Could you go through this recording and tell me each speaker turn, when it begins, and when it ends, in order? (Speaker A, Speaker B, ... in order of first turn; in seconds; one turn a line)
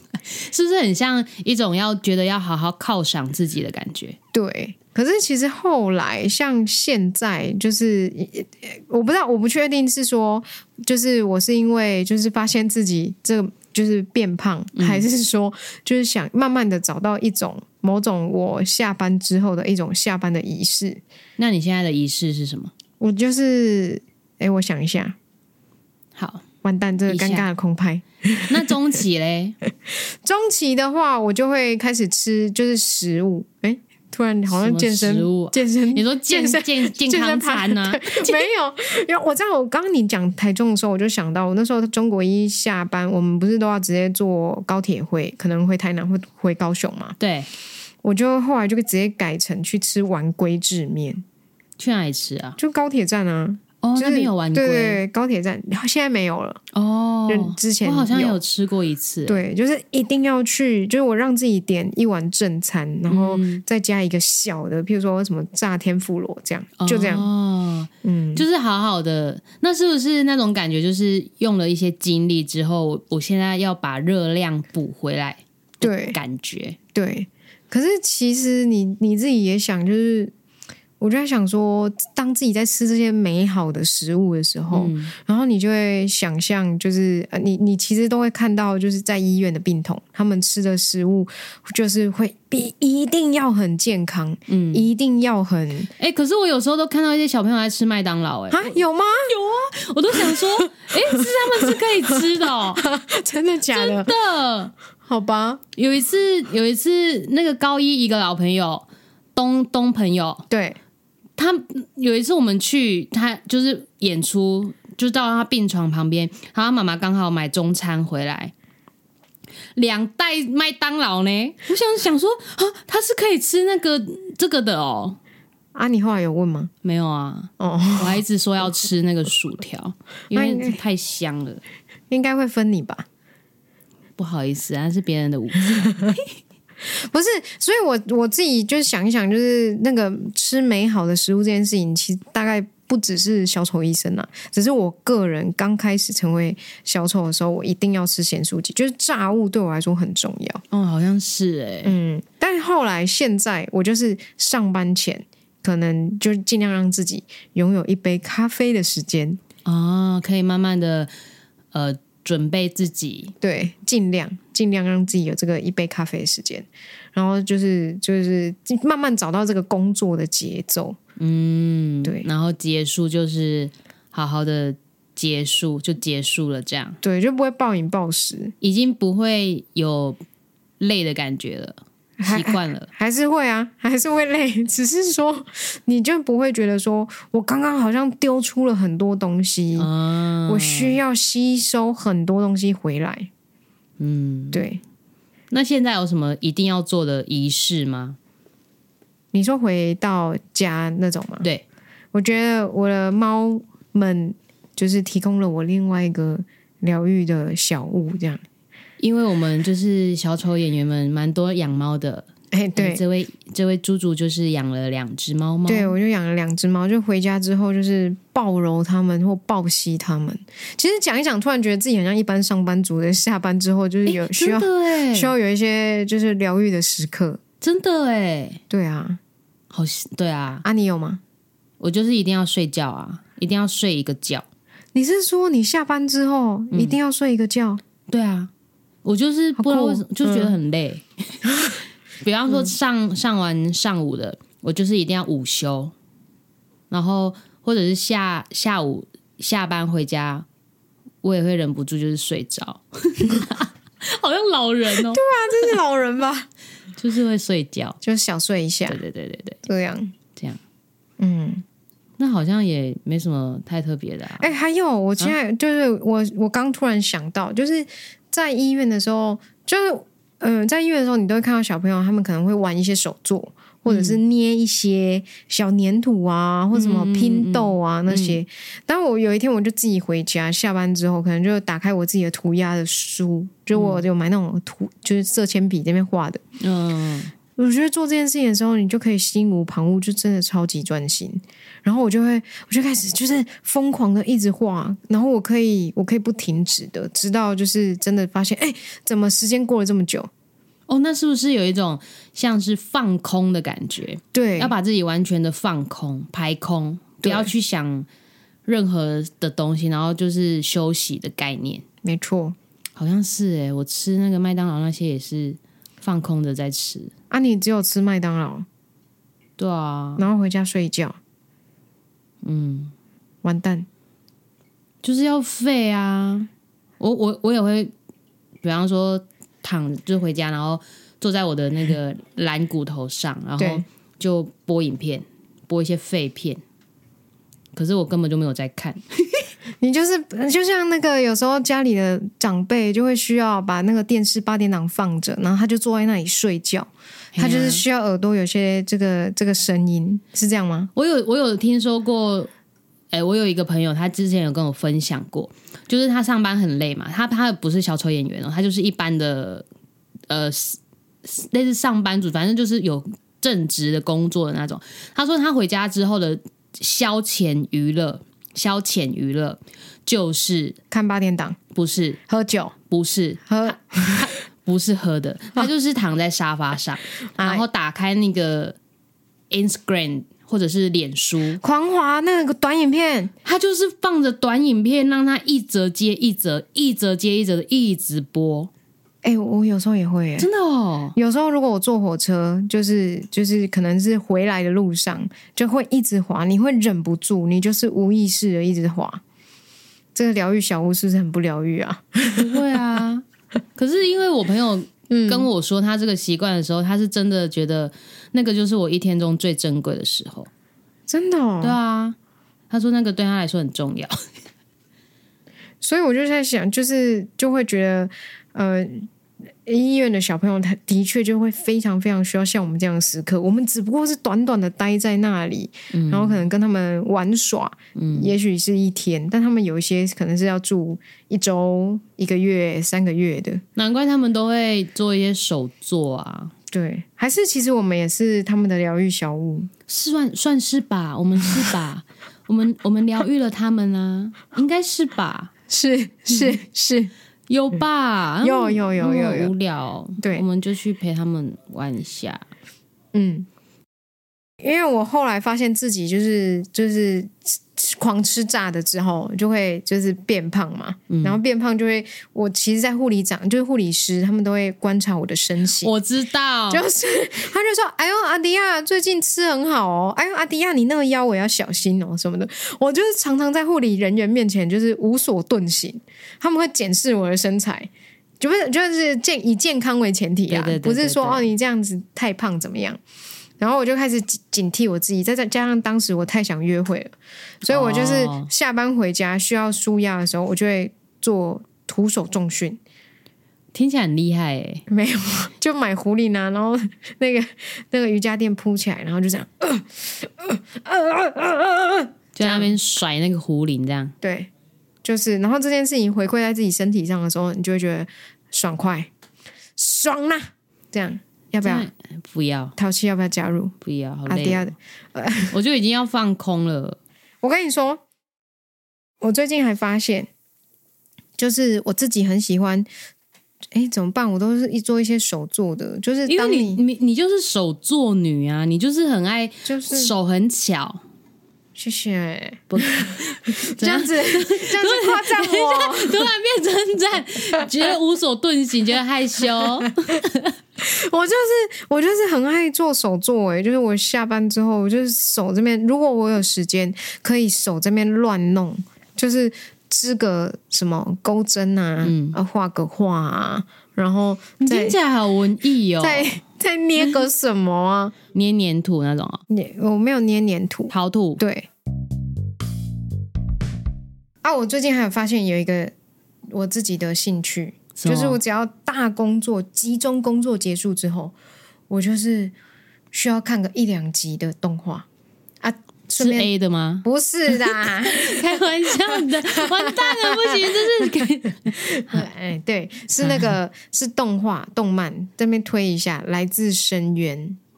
Speaker A: 0.3-4.2
Speaker B: 4.3-21.0
Speaker A: 14.8-15.1
Speaker A: 21.4-22.7
Speaker B: 23.0-25.2
Speaker A: 26.2-26.4
Speaker B: 26.6-28.6
Speaker A: 27.1-27.5
Speaker A: 28.5-29.6
Speaker B: 29.9-47.2
Speaker A: 34.5-38.5
Speaker A: 47.2-47.5
Speaker B: 48.0-51.2
Speaker A: 51.8-52.6
Speaker B: 52.6-56.6
Speaker A: 53.8-55.0
Speaker A: 56.7-59.4
Speaker B: 57.3-58.4
Speaker B: 59.3-67.3
Speaker A: 63.1-63.6
Speaker A: 66.8-76.8
Speaker B: 68.0-68.5
Speaker B: 75.8-76.2
Speaker B: 76.9-80.3
Speaker B: 81.0-95.9
Speaker A: 84.7-85.1
Speaker A: 94.5-94.9
Speaker A: 96.0-102.9
Speaker B: 98.5-99.3
Speaker B: 100.1-104.1
Speaker A: 103.7-104.7
Speaker B: 105.1-105.6
Speaker A: 105.8-110.5
Speaker B: 110.5-110.8
Speaker A: 111.4-118.5
Speaker A: 119.8-125.2
Speaker B: 125.7-126.7
Speaker A: 126.8-131.6
Speaker B: 127.6-128.2
Speaker B: 130.3-130.8
Speaker B: 132.1-133.1
Speaker A: 134.2-136.2
Speaker B: 136.8-150.6
Speaker A: 150.7-152.0
Speaker B: 151.8-159.4
Speaker A: 159.7-161.1
Speaker A: 161.7-163.3
Speaker B: 163.4-171.0
Speaker A: 171.2-177.0
Speaker B: 177.0-178.6
Speaker A: 178.6-180.2
Speaker A: 180.8-182.9
Speaker B: 182.2-189.9
Speaker A: 189.8-191.0
Speaker B: 190.5-193.3
Speaker A: 194.0-194.7
Speaker B: 194.5-194.8
Speaker A: 195.5-198.2
Speaker B: 199.3-201.5
Speaker B: 202.1-208.4
Speaker A: 209.0-215.9
Speaker B: 212.5-213.0
Speaker B: 215.7-227.4
Speaker A: 224.1-225.3
Speaker A: 227.6-228.6
Speaker B: 228.7-229.2
Speaker A: 229.7-230.7
Speaker B: 230.6-231.2
Speaker A: 231.8-234.4
Speaker B: 234.9-237.8
Speaker A: 236.7-237.0
Speaker A: 238.1-238.5
Speaker A: 239.1-241.4
Speaker B: 239.6-240.6
Speaker A: 242.2-245.9
Speaker A: 246.9-250.5
Speaker A: 251.2-255.2
Speaker B: 255.1-256.5
Speaker A: 257.0-258.0
Speaker B: 258.0-259.0
Speaker A: 258.9-259.6
Speaker B: 259.6-260.1
Speaker A: 260.3-260.6
Speaker B: 261.2-261.6
Speaker A: 262.2-264.5
Speaker B: 264.4-286.4
Speaker A: 273.9-274.2
Speaker A: 276.7-278.4
Speaker A: 283.7-284.0
Speaker A: 286.6-287.3
Speaker B: 287.6-300.3
Speaker A: 300.9-308.1
Speaker B: 304.3-304.7
Speaker B: 307.2-307.5
Speaker A: 308.7-311.8
Speaker B: 312.0-312.6
Speaker A: 313.0-317.1
Speaker B: 317.3-318.7
Speaker A: 319.6-320.2
Speaker B: 320.2-321.2
Speaker A: 322.4-322.9
Speaker B: 323.4-323.9
Speaker A: 325.0-326.5
Speaker A: 327.0-327.9
Speaker A: 328.6-336.6
Speaker B: 333.6-333.9
Speaker A: 337.7-339.4
Speaker B: 339.8-350.9
Speaker A: 347.4-347.8
Speaker A: 350.9-352.5
Speaker A: 353.1-359.6
Speaker A: 360.3-370.8
Speaker B: 370.9-371.6
Speaker A: 371.7-372.2
Speaker B: 372.3-372.7
Speaker A: 372.9-378.8
Speaker B: 373.5-374.3
Speaker B: 377.4-377.6
Speaker A: 379.5-381.6
Speaker B: 381.6-383.3
Speaker A: 383.4-388.7
Speaker B: 389.2-390.5
Speaker A: 390.4-391.2
Speaker B: 391.1-399.2
Speaker B: 400.1-402.6
Speaker A: 402.3-403.2
Speaker A: 403.8-410.5
Speaker B: 405.1-405.5
Speaker B: 411.1-411.8
Speaker A: 411.6-412.2
Speaker A: 412.7-414.1
Speaker B: 415.8-419.1
Speaker B: 419.6-433.6
Speaker A: 425.9-426.4
Speaker A: 428.0-428.3
Speaker A: 433.8-436.5
Speaker B: 436.7-439.7
Speaker A: 439.9-445.5
Speaker B: 445.7-447.1
Speaker A: 446.3-446.6
Speaker A: 447.5-452.5
Speaker B: 448.4-449.5
Speaker B: 450.2-450.4
Speaker B: 453.1-453.5
Speaker B: 454.6-465.9
Speaker A: 461.1-461.4
Speaker A: 465.8-466.8
Speaker B: 466.7-483.0
Speaker A: 480.5-481.5
Speaker B: 483.6-492.8
Speaker A: 487.7-488.5
Speaker A: 493.7-494.8
Speaker B: 494.9-502.7
Speaker A: 502.4-504.1
Speaker B: 504.2-504.5
Speaker B: 505.0-509.1
Speaker B: 509.8-511.9
Speaker A: 511.6-512.7
Speaker B: 512.8-513.8
Speaker A: 513.8-514.7
Speaker B: 514.3-515.5
Speaker A: 515.5-517.0
Speaker B: 517.4-518.0
Speaker B: 519.2-520.3
Speaker B: 521.4-522.9
Speaker B: 523.7-526.8
Speaker A: 526.3-531.0
Speaker B: 529.6-530.1
Speaker B: 531.8-536.3
Speaker A: 532.7-540.5
Speaker B: 540.8-555.0
Speaker A: 552.0-552.4
Speaker A: 554.6-556.4
Speaker B: 556.0-558.1
Speaker A: 558.3-559.4
Speaker B: 559.5-561.7
Speaker A: 560.9-561.4
Speaker B: 564.4-565.9
Speaker B: 566.5-571.4
Speaker A: 568.0-568.4
Speaker B: 571.9-572.5
Speaker B: 573.1-575.1
Speaker B: 575.6-576.5
Speaker A: 576.2-577.1
Speaker B: 577.0-581.1
Speaker A: 577.8-582.2
Speaker B: 581.7-587.6
Speaker A: 583.2-583.5